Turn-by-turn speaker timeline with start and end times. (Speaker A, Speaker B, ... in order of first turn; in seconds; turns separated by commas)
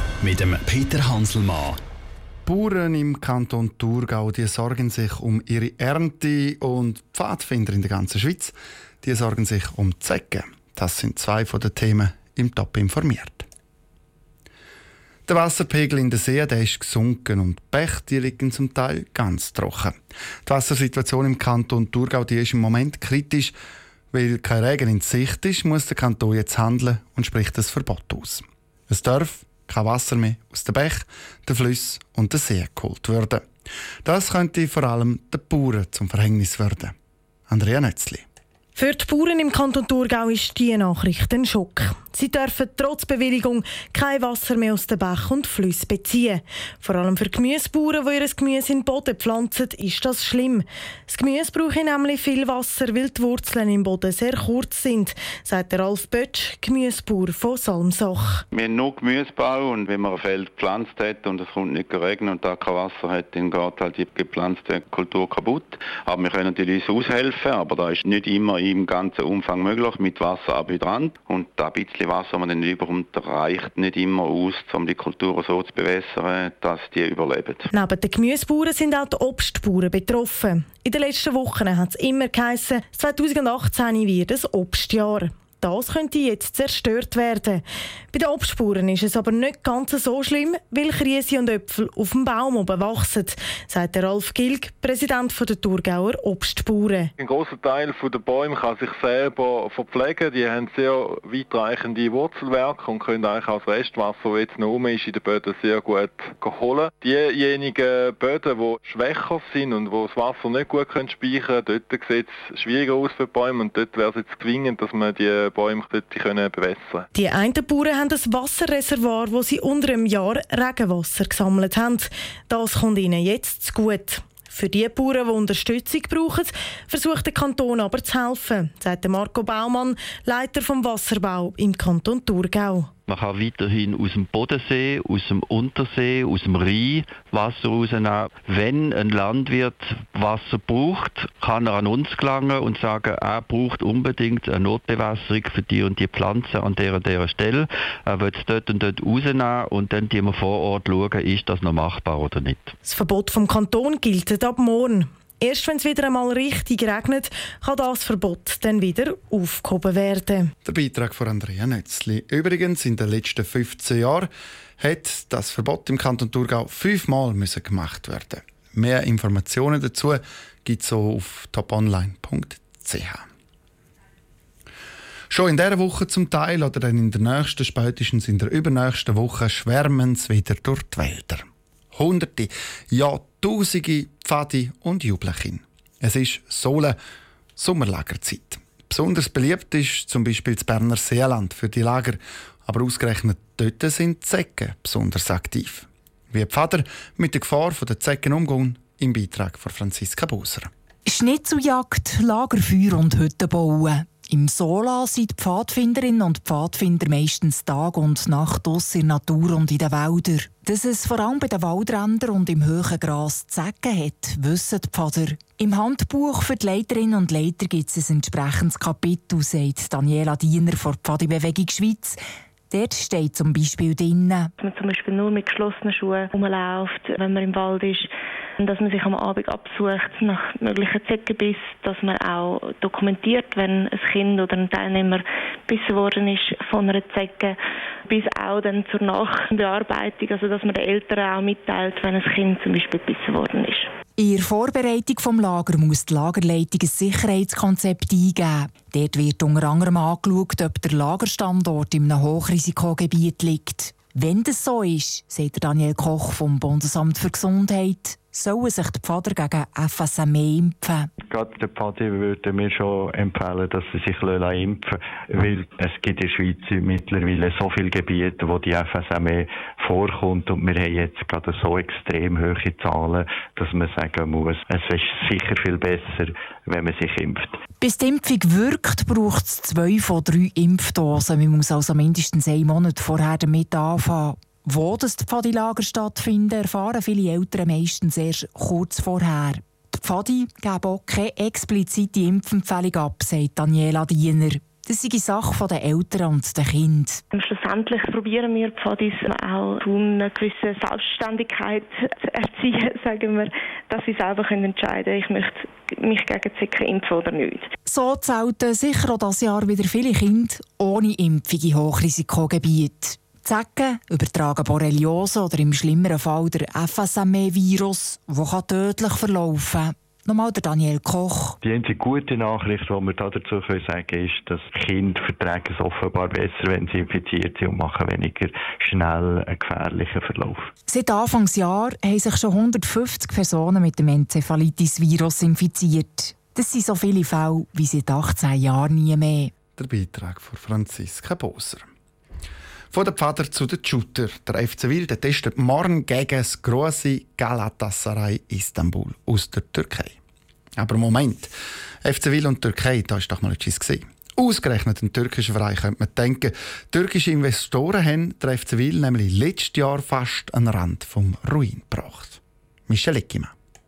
Speaker A: 2.5-13.5, Speaker A: 15.3-23.6, Speaker A: 24.1-33.4, Speaker A: 34.0-36.9, Speaker A: 37.5-38.2, Speaker B: 38.8-58.4, Speaker C: 58.5-77.7, Speaker B: 77.7-97.1, Speaker D: 97.2-117.1, Speaker B: 117.1-132.9, Speaker E: 133.1-152.8, Speaker B: 152.8-160.5, Speaker A: 160.6-173.2, Speaker A: 175.3-187.0, Speaker A: 187.6-200.7, Speaker F: 201.1-222.2, Speaker F: 222.7-224.5, Speaker G: 224.6-237.6, Speaker G: 238.1-243.9, Speaker F: 244.2-261.1, Speaker H: 261.2-277.6, Speaker F: 277.8-297.2, Speaker G: 297.3-307.7, Speaker F: 307.9-321.6, Speaker H: 321.6-330.7, Speaker F: 330.9-339.5, Speaker A: 339.8-341.9, Speaker A: 342.9-350.2, Speaker A: 350.8-351.5, Speaker A: 352.0-363.5